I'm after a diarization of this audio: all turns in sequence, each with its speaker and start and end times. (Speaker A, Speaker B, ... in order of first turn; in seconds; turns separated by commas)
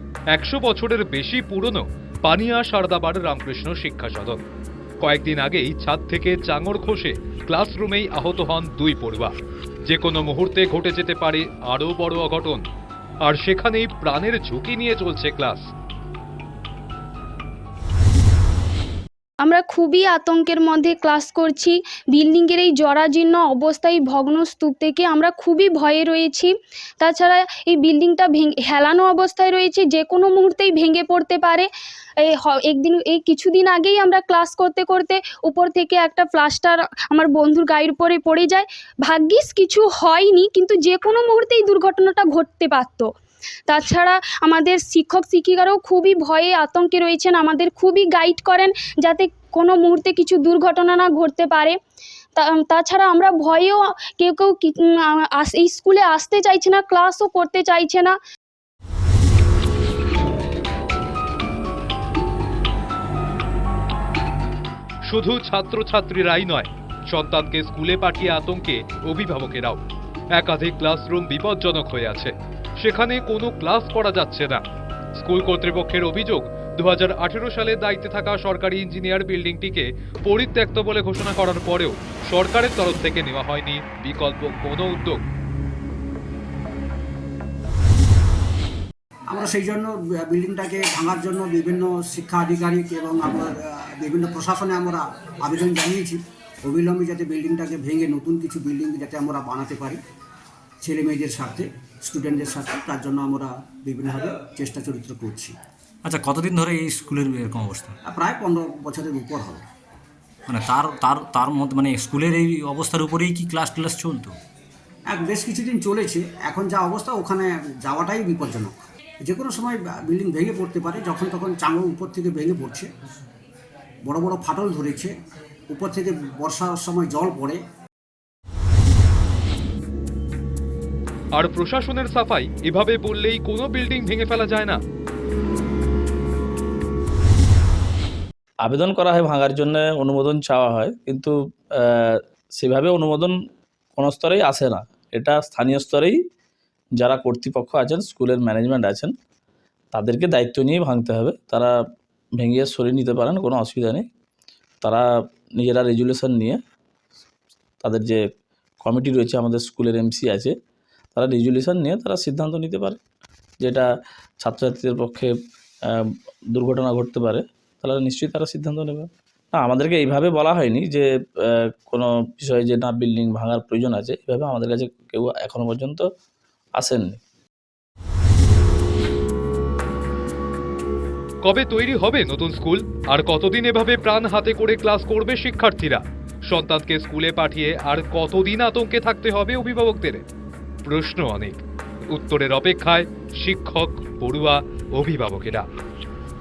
Speaker A: 0.3-4.4, Speaker A: 5.0-9.3, Speaker A: 9.8-12.6, Speaker A: 13.2-15.7, Speaker B: 19.4-31.7, Speaker B: 32.2-43.1, Speaker B: 43.7-51.8, Speaker B: 52.3-58.2, Speaker A: 65.1-69.8, Speaker A: 70.3-74.6, Speaker A: 75.2-85.2, Speaker C: 89.3-100.0, Speaker C: 100.8-105.5, Speaker D: 106.1-107.9, Speaker C: 108.0-109.6, Speaker D: 110.5-114.3, Speaker C: 115.1-122.9, Speaker C: 124.0-125.1, Speaker C: 125.7-127.6, Speaker A: 131.4-134.8, Speaker E: 138.6-143.3, Speaker E: 143.9-146.2, Speaker E: 147.0-149.1, Speaker E: 149.9-151.7, Speaker E: 152.4-154.1, Speaker E: 154.8-156.6, Speaker E: 157.8-158.2, Speaker E: 158.8-160.5, Speaker E: 161.1-163.0, Speaker E: 163.6-163.9, Speaker E: 164.4-165.3, Speaker E: 165.9-176.1, Speaker E: 176.8-177.2, Speaker A: 181.4-190.2, Speaker A: 190.8-195.7